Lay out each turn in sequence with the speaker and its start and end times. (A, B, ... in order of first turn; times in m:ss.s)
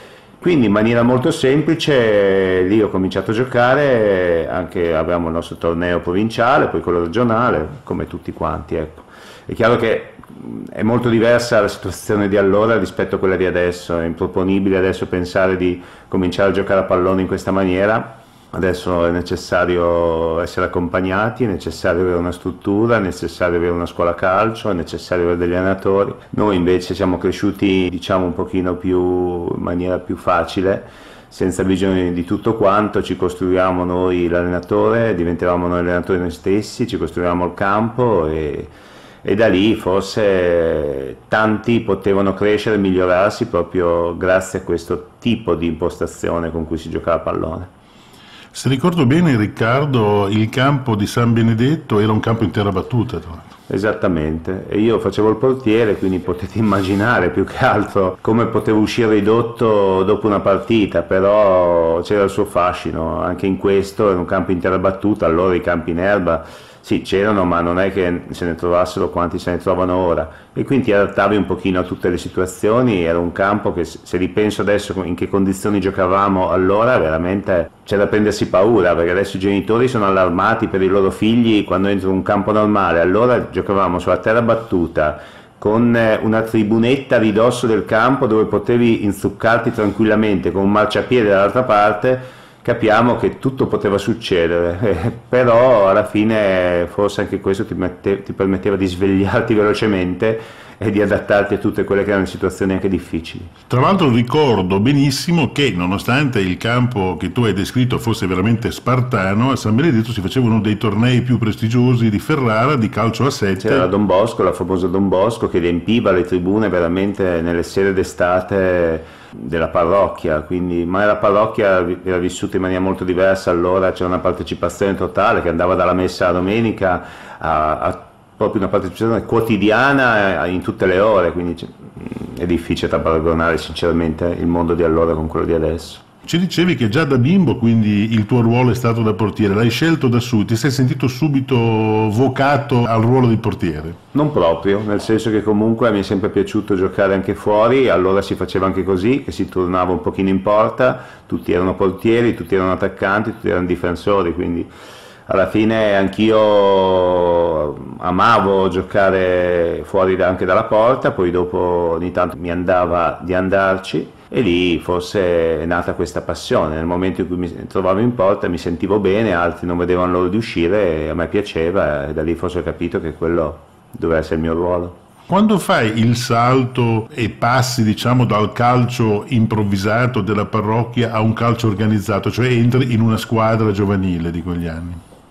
0:00.4-0:38.7 A
0:39.2-0:47.7 A
0:48.5-0:53.5 B
0:53.7-1:43.5 A
1:43.7-1:53.9 B
1:53.6-2:16.0 A
2:16.2-2:24.0 B
2:24.1-2:34.7 A
2:35.3-2:55.0 A
2:55.3-3:05.0 B